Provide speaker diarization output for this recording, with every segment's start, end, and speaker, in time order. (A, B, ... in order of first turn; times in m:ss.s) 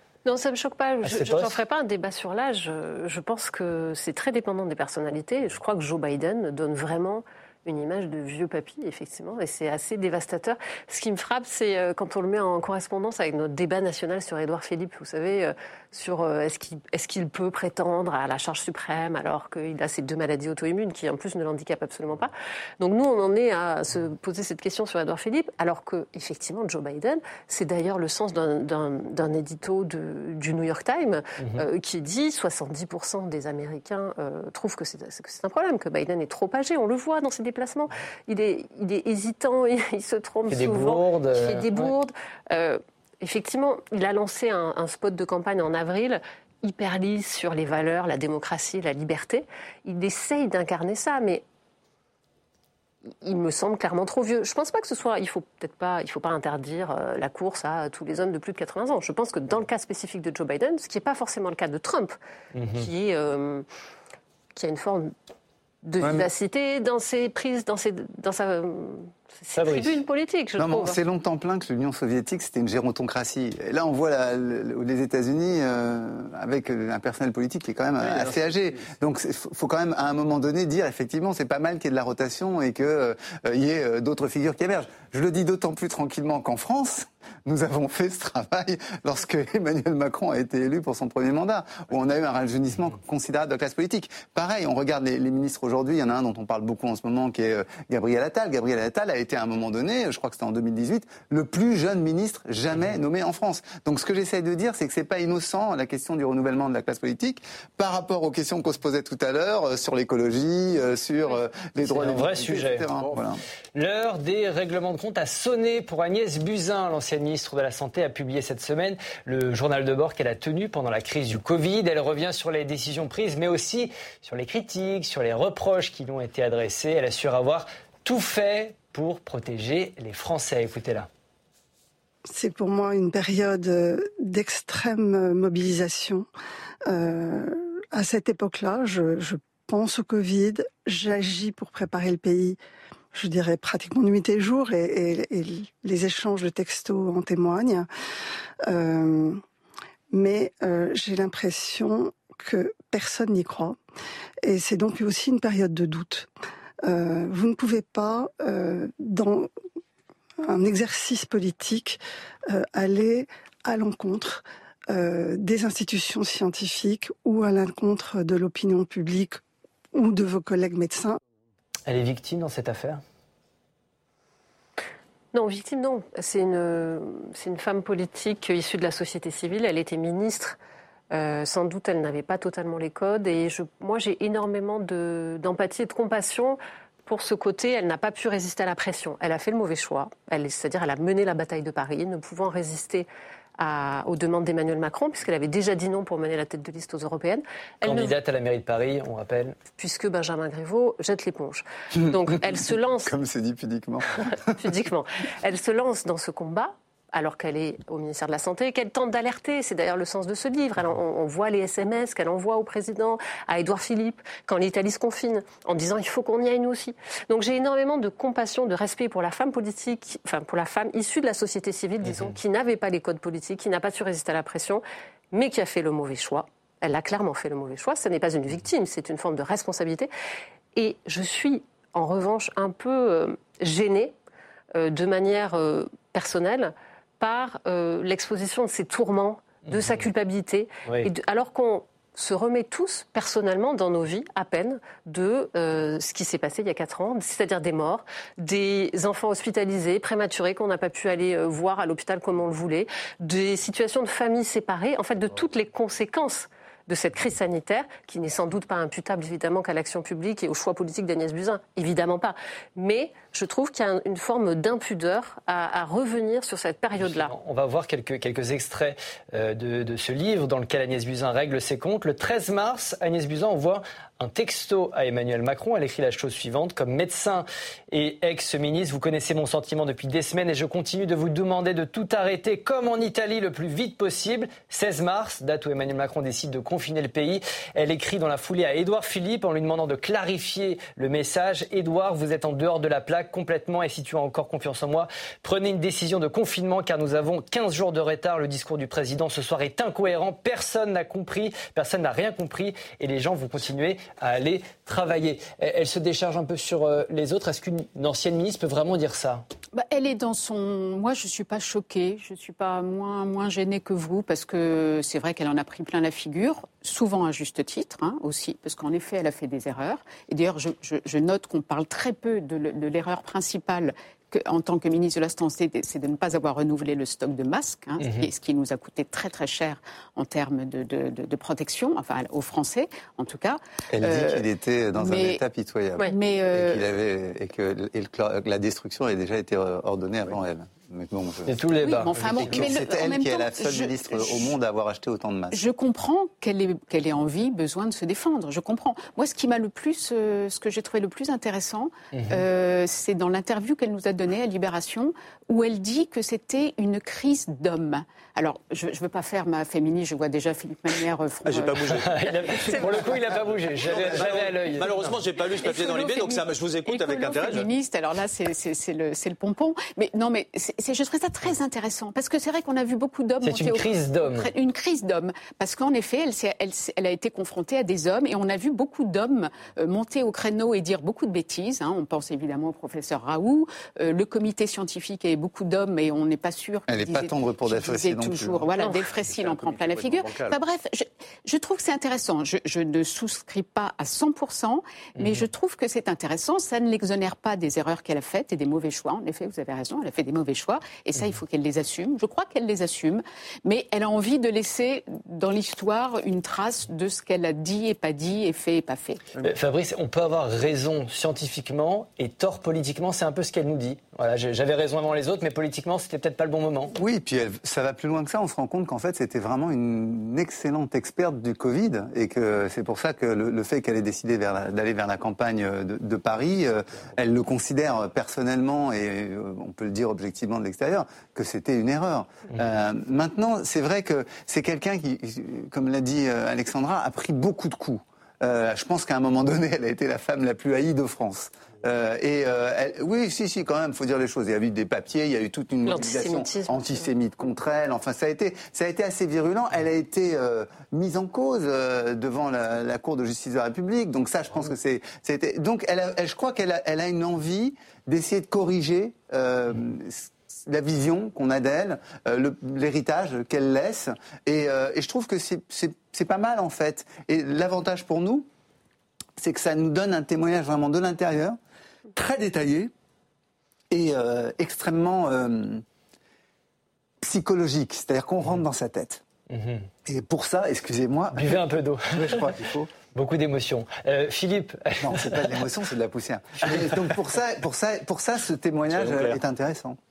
0:00.2-0:51.4 A
0:01.0-0:01.6 B
0:31.4-0:31.6 B
0:40.5-0:41.9 B
0:53.2-1:02.2 A
1:02.5-1:02.9 B
1:02.7-1:03.6 A
1:04.5-1:05.1 A
1:05.8-1:11.0 A
1:06.0-1:06.3 C
1:09.6-1:10.0 B
1:10.6-1:53.4 C
1:51.8-1:52.9 B
1:53.7-2:11.1 B
2:12.3-2:16.3 D
2:16.9-2:22.6 D
2:23.1-2:27.9 D
2:28.7-2:29.4 D
2:30.1-2:33.8 D
2:34.4-2:36.3 D
2:36.9-2:39.5 D
2:40.4-2:49.4 D
2:49.9-2:51.2 D
2:51.9-2:53.0 B
2:55.3-3:00.6 A
3:01.1-3:13.1 A
3:13.6-3:18.1 A
3:17.8-3:19.6 B
3:19.8-3:23.1 A
3:23.0-3:24.5 C
3:24.6-3:50.1 A
3:42.1-3:42.4 B
3:50.7-3:54.1 A
3:54.7-4:27.3 A
3:59.7-4:00.0 B
4:27.0-5:09.4 B
5:09.7-5:35.4 E
5:28.0-5:28.3 B
5:33.9-5:41.6 C
5:36.1-5:36.8 E
5:41.5-5:42.6 B
5:41.8-5:44.5 E
5:42.4-5:45.6 C
5:45.5-6:03.2 E
5:52.1-5:52.4 B
6:01.4-6:03.1 F
6:01.9-6:05.1 B
6:03.9-6:07.7 F
6:05.6-6:49.2 E
6:13.4-6:14.5 B
6:26.9-6:28.7 C
6:29.1-6:30.6 F
6:35.2-6:35.4 B
6:49.4-6:56.9 B
6:57.0-7:48.5 C
7:25.8-7:27.1 A
7:49.4-7:51.6 C
7:52.1-7:52.9 C
7:53.9-7:55.8 C
7:57.2-7:59.2 C
7:59.5-7:59.9 B
8:00.0-8:02.9 C
8:01.4-8:02.5 B
8:03.1-8:05.4 B
8:05.0-8:10.0 C
8:08.9-8:09.4 F